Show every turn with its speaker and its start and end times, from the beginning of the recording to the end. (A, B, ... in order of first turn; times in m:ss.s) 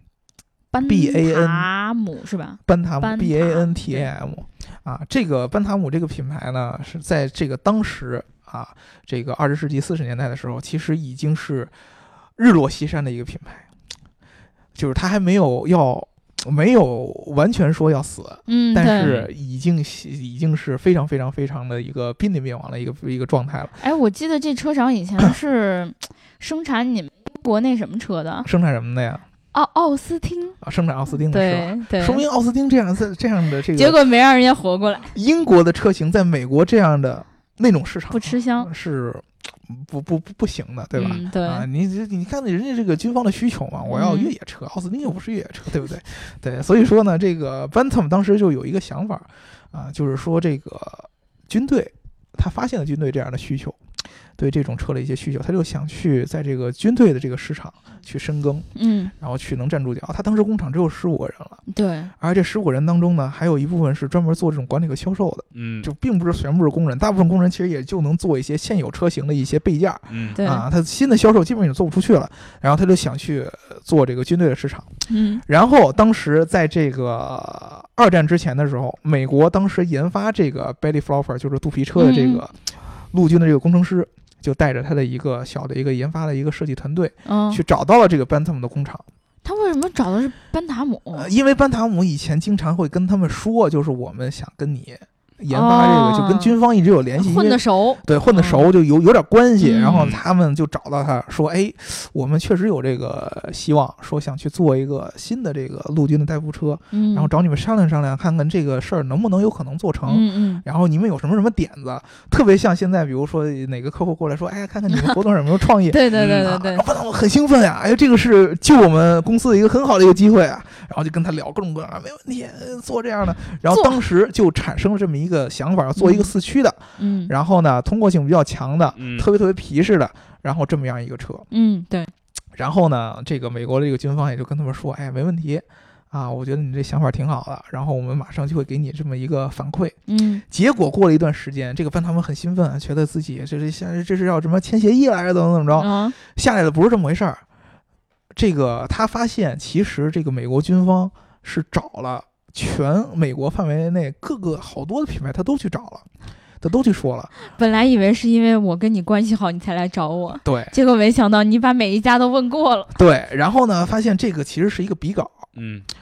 0:00.7-0:04.1 A
0:00.8-0:01.7 B
0:02.6-0:11.7 B
0:12.4-0:13.6 B
0:14.7-0:23.8 B
0:18.5-0:19.1 A
0:18.9-0:19.3 C
0:23.8-0:28.5 A
0:28.4-0:29.2 B
0:29.5-0:30.6 A
0:30.6-0:34.0 B
0:31.3-0:32.2 A
0:33.7-0:35.1 A
0:35.1-0:53.8 B
0:38.1-0:38.7 A
0:40.9-0:41.6 A
0:43.9-0:44.3 A
0:54.4-0:58.7 B
0:58.7-0:59.1 A
0:59.2-1:01.6 B
1:01.7-1:02.1 A
1:02.2-1:14.9 B
1:05.5-1:05.9 C
1:10.1-1:10.4 C
1:10.4-1:10.6 A
1:15.1-1:15.4 A
1:15.4-1:29.0 B
1:22.0-1:22.4 A
1:27.2-1:27.6 A
1:29.4-1:31.3 A
1:31.1-2:11.4 B
1:35.5-1:36.6 A
1:37.2-1:38.7 A
1:39.6-1:40.1 A
1:39.9-1:40.2 C
1:46.9-1:47.3 A
1:50.1-1:50.6 A
1:55.9-1:56.8 A
1:56.2-1:56.4 C
2:03.7-2:04.0 A
2:06.0-2:06.3 A
2:07.0-2:07.3 A
2:09.0-2:09.3 C
2:11.5-2:12.1 A
2:12.6-2:20.0 B
2:20.1-2:20.4 A
2:20.5-2:27.4 B
2:25.7-2:26.2 A
2:28.3-2:36.0 B
2:36.6-2:37.3 B
2:37.4-2:42.9 A
2:40.4-2:40.7 B
2:42.9-2:45.4 B
2:45.5-2:45.8 C